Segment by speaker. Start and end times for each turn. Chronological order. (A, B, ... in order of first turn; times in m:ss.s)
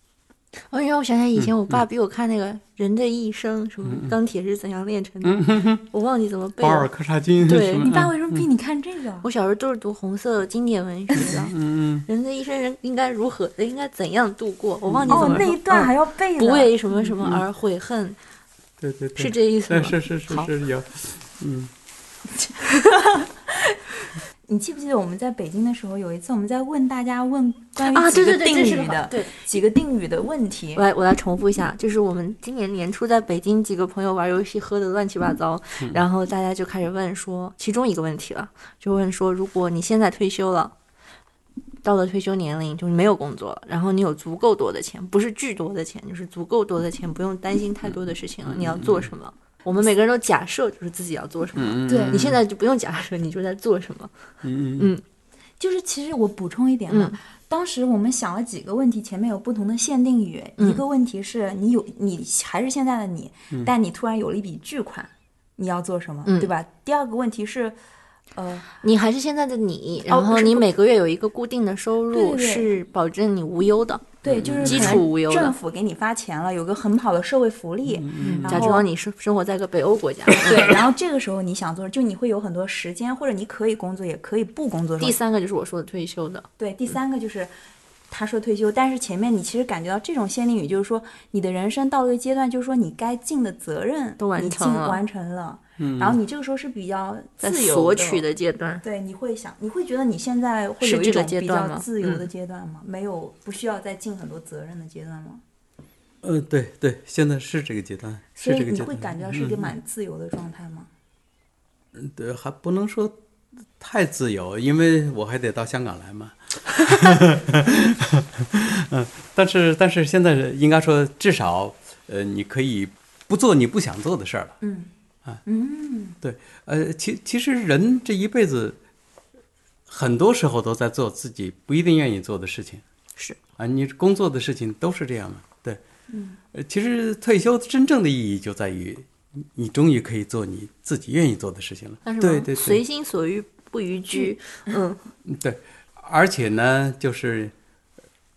0:00.6-0:06.9 A
0:01.4-0:01.8 B
0:03.8-0:04.2 B
0:05.2-0:05.8 B
0:06.6-0:08.5 B
0:07.4-0:07.9 A
0:07.8-0:09.3 C
0:09.2-0:18.2 A
0:11.2-0:12.1 B
0:14.9-0:15.5 B
0:15.1-0:17.2 C
0:18.8-0:21.7 B
0:19.2-0:20.5 A
0:22.8-0:23.8 C
0:24.5-0:30.8 C
0:27.8-0:29.4 A
0:30.8-0:40.7 A
0:41.8-0:54.1 A
0:48.4-0:49.1 B
0:51.6-0:52.4 B
0:51.9-0:52.2 C
0:54.4-0:54.9 B
0:54.8-0:55.0 A
0:55.6-1:07.8 C
0:56.9-0:57.2 A
1:06.3-1:06.5 A
1:08.4-1:08.7 C
1:08.8-1:15.6 A
1:10.1-1:10.7 C
1:12.1-1:12.7 C
1:14.2-1:15.0 B
1:14.2-1:18.9 C
1:17.9-1:18.7 B
1:18.4-1:20.8 A
1:20.3-1:25.2 C
1:25.0-1:26.5 A
1:26.6-1:27.5 C
1:28.1-1:38.2 C
1:34.2-1:35.0 A
1:35.8-1:36.2 B
1:37.4-1:38.8 A
1:38.8-1:45.4 C
1:40.8-1:42.3 A
1:46.2-1:49.7 B
1:48.4-1:50.9 C
1:52.0-1:53.2 B
1:53.8-2:04.6 B
2:04.6-2:04.9 C
2:05.5-2:06.2 C
2:06.2-2:08.8 B
2:09.9-2:12.8 B
2:13.6-2:15.8 B
2:16.1-2:16.4 C
2:16.5-2:22.8 B
2:22.1-2:25.0 A
2:25.2-2:27.5 B